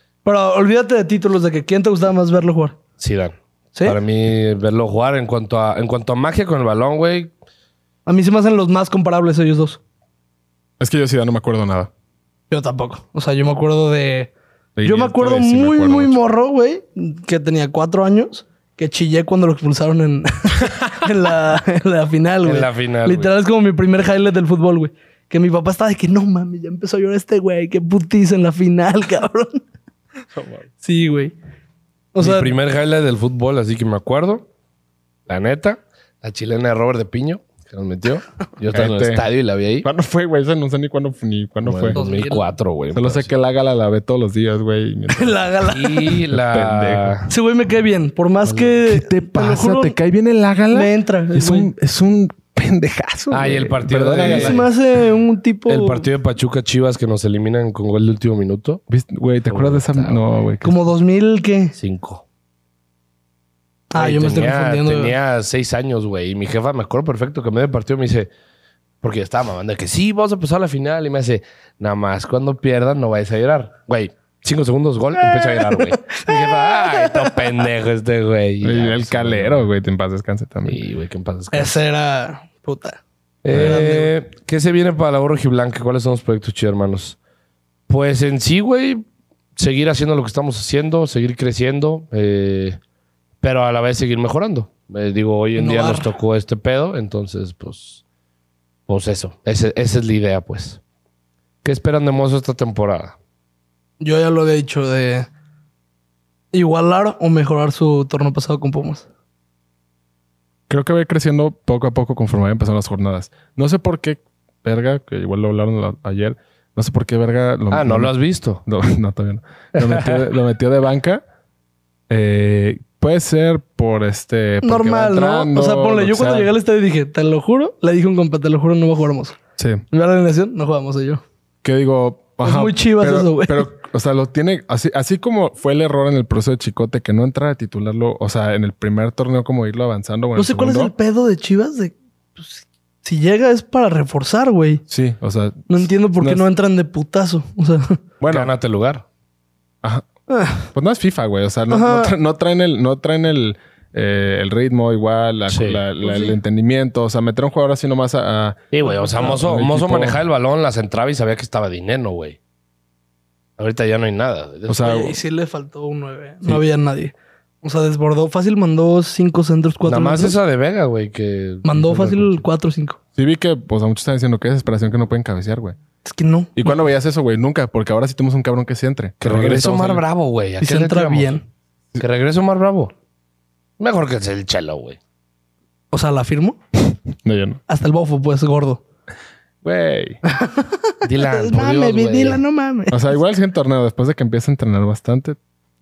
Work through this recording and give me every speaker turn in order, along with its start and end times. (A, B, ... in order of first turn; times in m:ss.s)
0:00.2-0:02.8 A
0:03.0-0:07.3 B
0:08.1-0:09.8 A
0:10.8-0:11.9 C
0:12.5-0:14.3 A
0:14.8-0:16.2 C
0:14.8-0:29.6 A
0:22.4-0:23.3 B
0:30.3-0:30.7 C
0:30.8-0:31.3 A
0:32.1-0:32.6 A
0:32.2-0:34.5 B
0:35.3-0:39.9 B
0:38.7-0:39.2 C
0:39.8-0:42.0 C
0:41.6-0:43.3 B
0:41.9-0:42.4 A
0:42.9-0:45.4 C
0:45.1-0:46.2 A
0:45.7-0:47.3 B
0:46.3-0:47.2 C
0:47.3-0:50.0 A
0:48.4-0:48.7 B
0:48.9-0:54.7 C
0:50.7-0:51.7 A
0:53.3-0:54.7 B
0:54.2-0:56.1 A
0:55.7-0:58.8 B
0:58.9-1:00.8 C
0:59.5-1:00.2 B
1:00.6-1:01.7 A
1:01.8-1:02.2 B
1:03.9-1:05.2 A
1:04.0-1:08.3 B
1:09.0-1:19.7 B
1:15.2-1:17.5 A
1:18.6-1:20.8 C
1:20.6-1:21.8 B
1:21.5-1:24.1 A
1:23.4-1:27.2 B
1:27.9-1:29.0 B
1:29.6-1:32.8 B
1:33.4-1:38.0 B
1:35.6-1:36.1 A
1:38.9-1:40.8 B
1:41.6-1:43.2 B
1:44.0-1:45.3 A
1:46.5-1:49.1 A
1:50.7-2:01.2 C
1:57.7-1:58.6 B
1:59.8-2:00.2 B
2:02.1-2:06.5 C
2:04.6-2:09.4 A
2:09.6-2:09.8 C
2:09.9-2:11.2 A
2:11.6-2:20.9 C
2:12.4-2:13.7 A
2:20.4-2:24.8 A
2:24.9-2:26.5 C
2:25.7-2:28.0 A
2:28.2-2:28.5 C
2:28.3-2:29.0 B
2:30.3-2:30.7 A
2:30.7-2:40.2 C
2:31.7-2:32.1 A
2:35.5-2:35.8 B
2:36.0-2:36.4 A
2:38.7-2:42.4 B
2:43.6-2:45.0 B
2:44.7-2:45.2 C
2:44.8-2:50.4 A
2:49.9-2:52.4 B
2:51.6-2:53.0 A
2:53.2-2:55.8 C
2:56.0-2:56.8 A
2:56.6-3:00.0 C
2:59.2-3:01.3 B
3:00.6-3:01.4 A
3:02.0-3:02.9 B
3:03.8-3:05.0 B
3:05.9-3:06.6 A
3:07.2-3:07.6 C
3:07.7-3:08.8 A
3:09.6-3:10.2 C
3:10.3-3:13.1 A
3:11.0-3:12.4 B
3:12.9-3:15.4 C